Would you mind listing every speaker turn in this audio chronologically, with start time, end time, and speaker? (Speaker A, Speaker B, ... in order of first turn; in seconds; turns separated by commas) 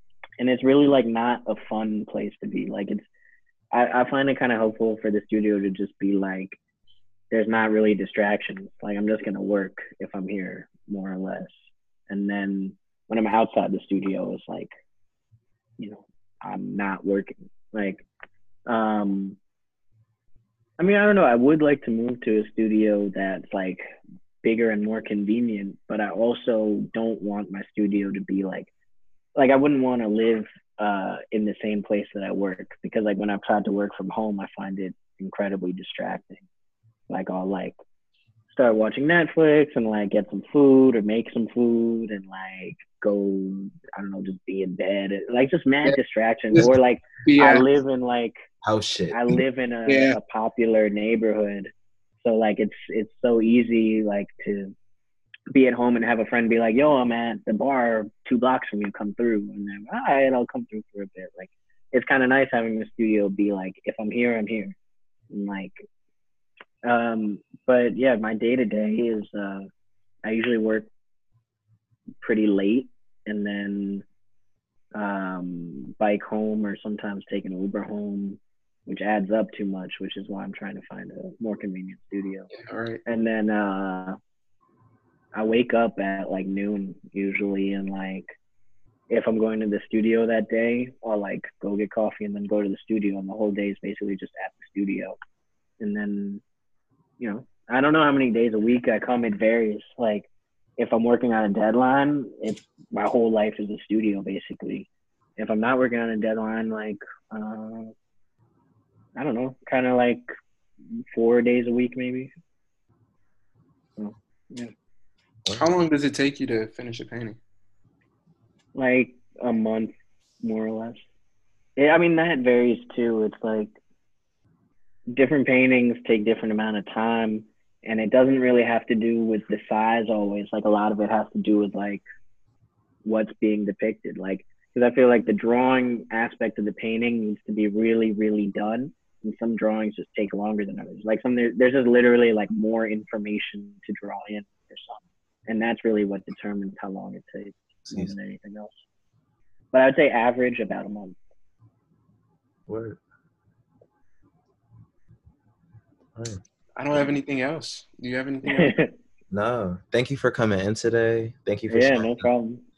Speaker A: 0.4-3.1, Speaker A: 3.7-6.6, Speaker A: 7.3-11.6, Speaker A: 12.1-14.7, Speaker A: 15.8-18.1, Speaker A: 18.7-19.4, Speaker A: 20.8-23.9, Speaker A: 24.4-28.7, Speaker A: 29.4-36.5, Speaker A: 37.1-37.8, Speaker A: 38.5-48.3, Speaker B: 47.2-47.7, Speaker C: 48.6-49.2, Speaker A: 49.1-54.7, Speaker B: 49.9-50.2, Speaker A: 55.5-64.8, Speaker A: 65.3-65.8, Speaker A: 66.8-69.7, Speaker A: 70.3-70.9, Speaker A: 72.2-74.0, Speaker A: 75.0-82.5, Speaker B: 82.5-83.0, Speaker A: 83.1-84.2, Speaker A: 85.3-88.3, Speaker A: 89.1-95.2, Speaker A: 95.8-96.4, Speaker A: 97.2-107.9, Speaker A: 109.2-110.3, Speaker A: 111.1-112.3, Speaker A: 114.0-114.7, Speaker B: 115.5-117.4, Speaker A: 118.8-121.0, Speaker A: 121.8-123.8, Speaker A: 125.1-132.0, Speaker A: 133.1-148.8, Speaker A: 149.7-151.2, Speaker C: 152.7-153.0, Speaker C: 156.2-156.4, Speaker B: 156.8-158.8, Speaker A: 158.5-158.9, Speaker C: 159.3-162.3, Speaker A: 161.7-162.6